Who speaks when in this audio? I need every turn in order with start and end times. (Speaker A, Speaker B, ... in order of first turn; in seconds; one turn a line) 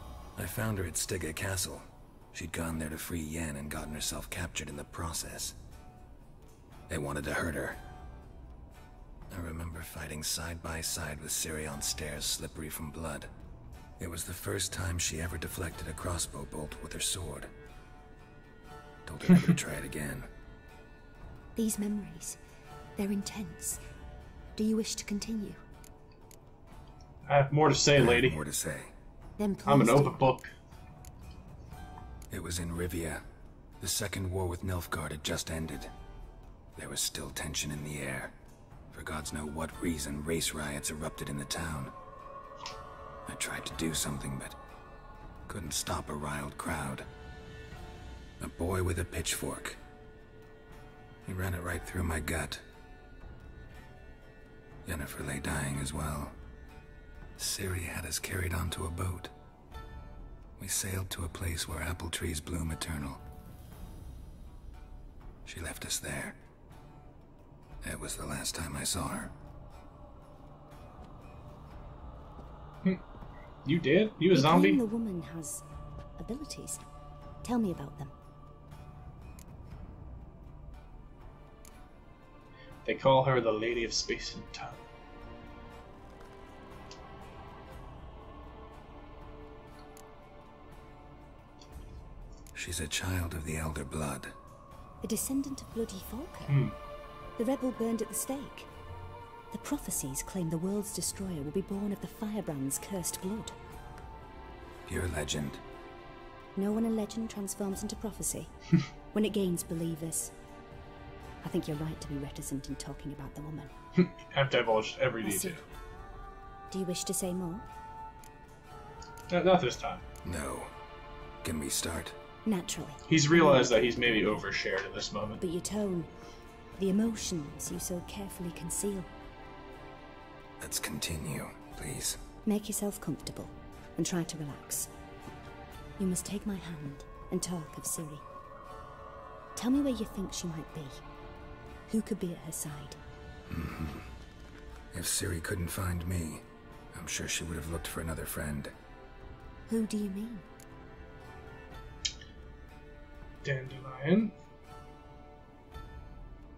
Speaker A: 0.3-5.6
Speaker A: 6.9-7.8
Speaker A: 9.3-13.3
Speaker A: 14.0-17.5
Speaker A: 19.0-20.3
Speaker B: 21.6-22.4
Speaker B: 23.0-23.8
Speaker B: 24.5-25.6
Speaker C: 27.2-28.4
Speaker A: 27.9-28.9
Speaker B: 29.4-30.2
Speaker C: 29.6-30.5
Speaker A: 32.3-33.2
Speaker A: 33.8-35.9
Speaker A: 36.8-38.3
Speaker A: 38.9-41.9
Speaker A: 43.2-44.6
Speaker A: 45.5-47.0
Speaker A: 48.4-49.8
Speaker A: 51.2-52.6
Speaker A: 54.8-56.4
Speaker A: 57.4-59.3
Speaker A: 60.6-63.2
Speaker A: 65.4-66.4
Speaker A: 67.8-69.3
Speaker C: 73.6-74.8
Speaker B: 74.3-75.6
Speaker B: 76.2-76.8
Speaker B: 77.4-78.1
Speaker C: 82.8-84.8
Speaker A: 92.5-94.3
Speaker B: 95.0-96.7
Speaker C: 96.5-96.7
Speaker B: 97.4-98.7
Speaker B: 99.5-103.5
Speaker A: 104.8-105.6
Speaker B: 106.5-108.5
Speaker B: 109.1-110.3
Speaker B: 111.4-113.7
Speaker C: 114.0-115.6
Speaker B: 115.2-115.6
Speaker B: 116.7-117.7
Speaker C: 119.3-120.0
Speaker A: 120.2-120.7
Speaker A: 121.4-122.2
Speaker B: 122.4-124.4
Speaker C: 123.1-125.4
Speaker B: 125.4-126.1
Speaker B: 126.8-129.1
Speaker A: 130.6-132.2
Speaker B: 132.4-134.9
Speaker B: 136.0-138.2
Speaker B: 139.6-141.0
Speaker B: 141.9-143.0
Speaker A: 143.5-144.1
Speaker A: 144.9-148.7
Speaker B: 149.7-150.5
Speaker C: 153.4-154.3